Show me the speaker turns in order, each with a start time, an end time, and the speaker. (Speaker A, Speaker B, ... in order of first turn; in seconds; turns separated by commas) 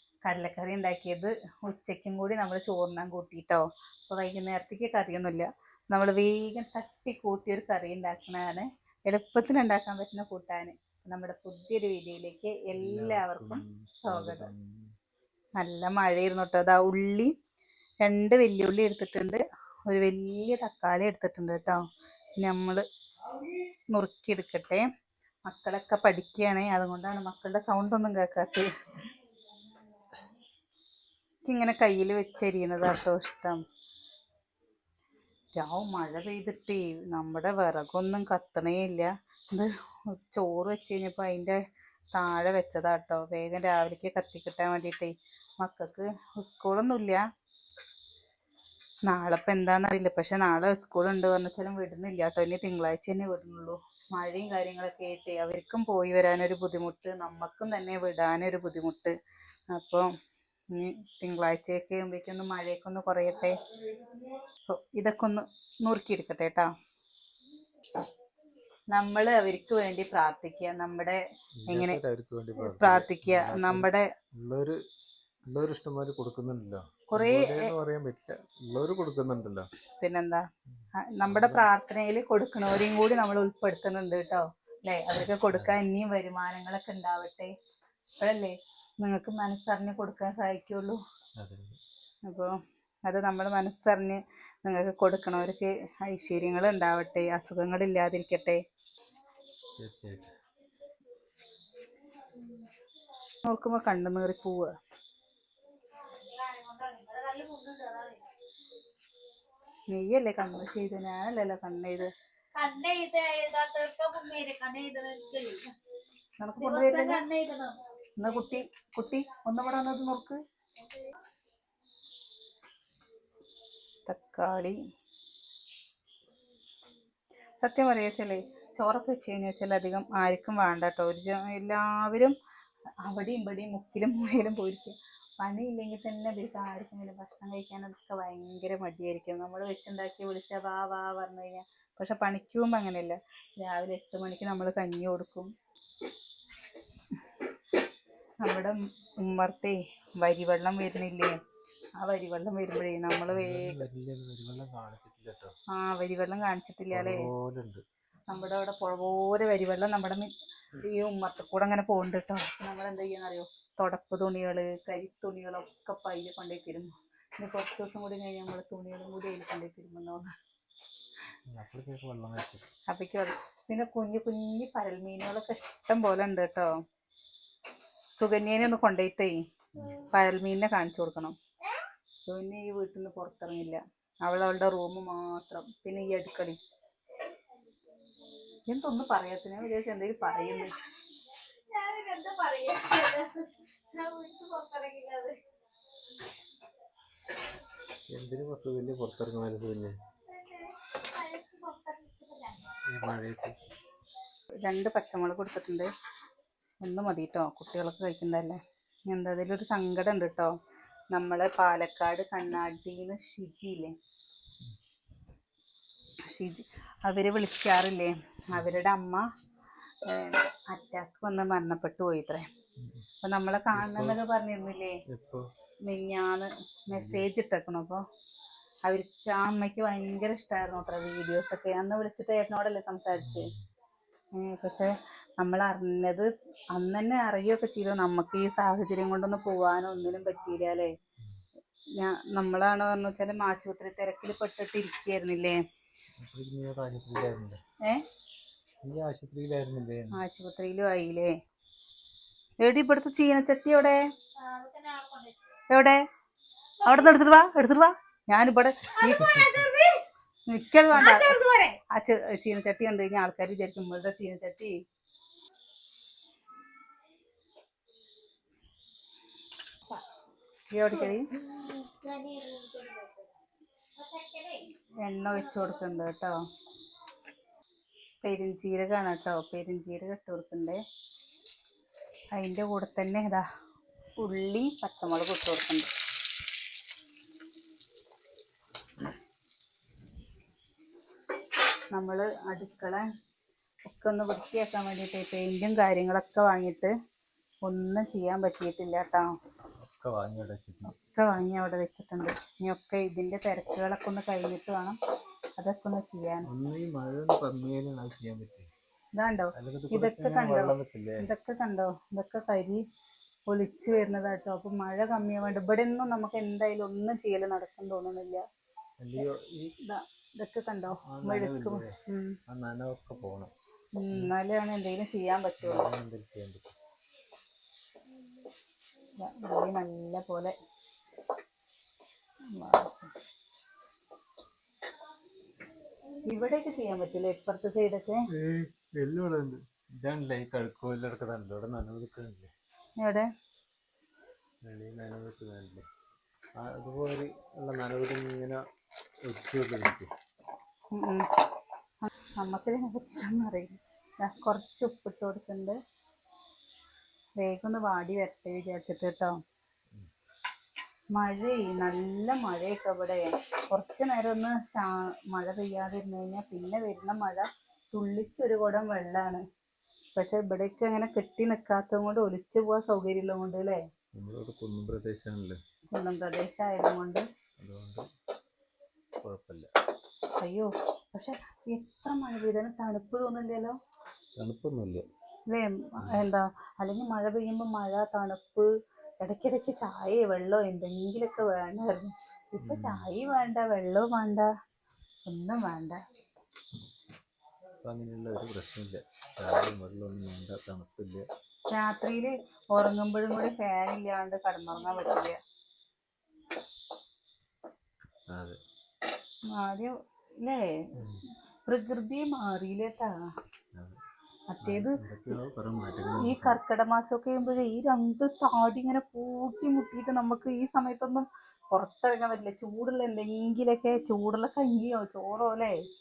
Speaker A: 0.2-14.5, Speaker B: 12.8-14.9, Speaker A: 15.6-17.3, Speaker A: 18.0-21.8, Speaker A: 22.4-22.8, Speaker A: 23.9-24.9, Speaker A: 25.5-28.7, Speaker A: 31.4-33.6, Speaker A: 35.5-41.6, Speaker A: 42.1-47.2, Speaker A: 49.0-59.1, Speaker A: 59.7-60.1, Speaker A: 60.7-63.5, Speaker A: 64.7-66.7, Speaker A: 68.9-72.0, Speaker B: 71.6-74.8, Speaker A: 72.6-74.1, Speaker B: 75.5-79.7, Speaker A: 77.1-77.7, Speaker A: 80.0-80.4, Speaker A: 81.0-87.5, Speaker B: 81.2-81.7, Speaker B: 85.5-85.8, Speaker A: 88.2-91.0, Speaker B: 91.4-91.8, Speaker A: 92.3-98.6, Speaker B: 99.8-100.3, Speaker C: 102.3-102.7, Speaker A: 103.4-104.7, Speaker C: 106.0-108.3, Speaker A: 109.9-112.1, Speaker C: 112.5-115.7, Speaker A: 116.4-117.2, Speaker C: 116.6-117.8, Speaker A: 118.2-120.4, Speaker A: 124.1-124.8, Speaker A: 127.6-132.3, Speaker A: 133.0-145.5, Speaker A: 148.4-151.3, Speaker A: 152.0-153.8, Speaker B: 153.3-155.5, Speaker A: 155.7-157.3, Speaker B: 156.9-157.8, Speaker A: 158.3-170.3, Speaker B: 171.5-172.7, Speaker A: 172.9-176.7, Speaker A: 178.2-181.3, Speaker A: 182.3-186.6, Speaker A: 188.7-190.8, Speaker C: 191.7-195.4, Speaker B: 198.1-199.9, Speaker C: 200.3-202.8, Speaker B: 202.8-203.6, Speaker A: 204.6-205.9, Speaker A: 206.8-208.6, Speaker A: 209.1-210.5, Speaker A: 211.1-213.9, Speaker A: 216.2-219.2, Speaker A: 220.1-222.4, Speaker B: 222.8-223.0, Speaker A: 223.2-225.0, Speaker B: 223.7-224.2, Speaker B: 225.1-225.5, Speaker A: 225.8-228.0, Speaker B: 226.9-227.3, Speaker A: 228.8-233.5, Speaker B: 233.2-233.6, Speaker A: 234.3-240.9, Speaker A: 242.0-245.6, Speaker B: 246.2-247.6, Speaker B: 248.8-250.2, Speaker A: 250.1-251.3, Speaker A: 252.6-254.0, Speaker C: 254.4-255.4, Speaker A: 255.7-256.0, Speaker C: 256.8-257.1, Speaker A: 256.9-259.4, Speaker C: 258.9-260.0, Speaker A: 260.5-264.7, Speaker C: 260.9-261.8, Speaker A: 270.7-271.3, Speaker C: 270.9-273.3, Speaker C: 274.0-274.7, Speaker A: 275.0-276.4, Speaker A: 278.2-280.8, Speaker A: 282.3-283.4, Speaker A: 284.2-285.9, Speaker A: 291.9-293.0, Speaker A: 293.9-296.9, Speaker A: 297.6-299.3, Speaker B: 299.8-300.9, Speaker A: 300.9-305.0, Speaker A: 305.6-306.5, Speaker B: 306.4-308.7, Speaker A: 309.1-312.8, Speaker B: 309.5-311.3, Speaker A: 313.5-318.4, Speaker B: 319.0-319.7, Speaker A: 319.8-322.4, Speaker B: 321.1-321.9, Speaker B: 322.5-323.5, Speaker A: 324.0-325.9, Speaker B: 325.6-326.7, Speaker A: 329.2-330.5, Speaker A: 332.5-333.1, Speaker A: 336.2-338.2, Speaker B: 338.3-342.5, Speaker A: 343.0-343.3, Speaker B: 344.6-345.8, Speaker B: 346.6-348.6, Speaker B: 349.2-350.1, Speaker A: 350.9-351.3, Speaker A: 352.0-355.8, Speaker A: 357.4-359.4, Speaker A: 361.1-369.4, Speaker A: 370.1-373.8, Speaker B: 374.1-375.6, Speaker A: 375.9-377.2, Speaker B: 377.6-378.0, Speaker B: 379.2-379.7, Speaker A: 380.4-383.8, Speaker B: 384.4-385.0, Speaker A: 385.5-388.7, Speaker A: 389.2-394.5, Speaker B: 392.6-393.1, Speaker A: 395.3-396.0, Speaker B: 397.8-401.2, Speaker A: 401.7-405.4, Speaker B: 408.3-408.6, Speaker A: 409.5-410.7, Speaker B: 410.9-411.2, Speaker A: 411.7-413.1, Speaker B: 413.7-414.0, Speaker A: 414.5-415.0, Speaker B: 414.6-416.6, Speaker A: 416.2-425.8